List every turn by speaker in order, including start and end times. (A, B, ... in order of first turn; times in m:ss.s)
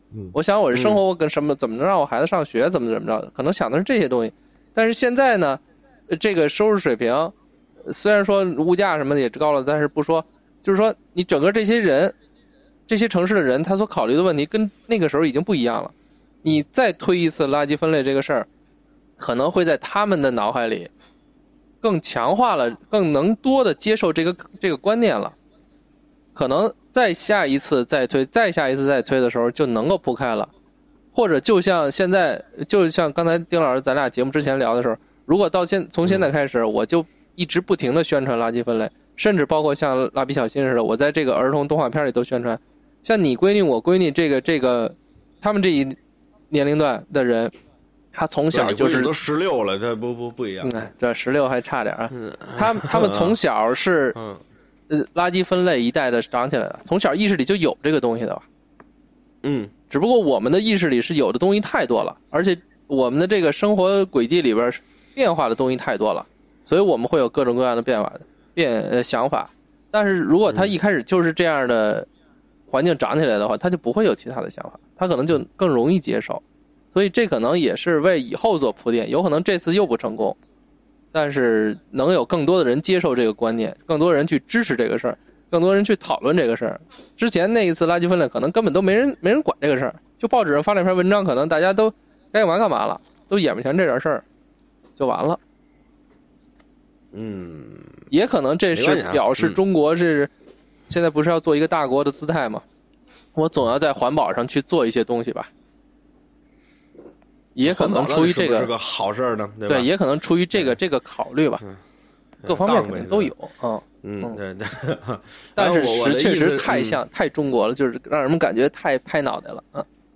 0:00.3-0:12.1 A
0:00.7-0:01.0 B
0:12.9-0:18.5 A
0:19.2-0:20.9 A
0:21.8-0:25.3 A
0:26.3-0:30.5 A
0:31.1-0:46.0 A
0:46.5-0:47.5 A
0:48.1-0:49.1 A
0:48.5-0:50.8 B
0:50.6-0:54.2 A
0:52.1-0:53.4 B
0:54.1-0:54.4 B
0:54.9-0:58.4 A
0:59.4-0:59.7 B
0:59.9-1:12.1 A
1:12.7-1:16.4 A
1:16.9-1:20.4 A
1:21.1-1:34.2 A
1:35.0-1:35.4 A
1:37.1-1:38.0 B
1:38.1-1:40.3 A
1:38.7-1:39.6 B
1:40.9-1:42.6 A
1:43.3-1:45.5 A
1:47.5-1:48.7 A
1:47.6-1:49.9 B
1:49.7-1:51.6 A
1:52.4-1:53.3 B
1:52.4-1:54.4 A
1:54.0-1:57.0 B
1:55.6-1:59.8 A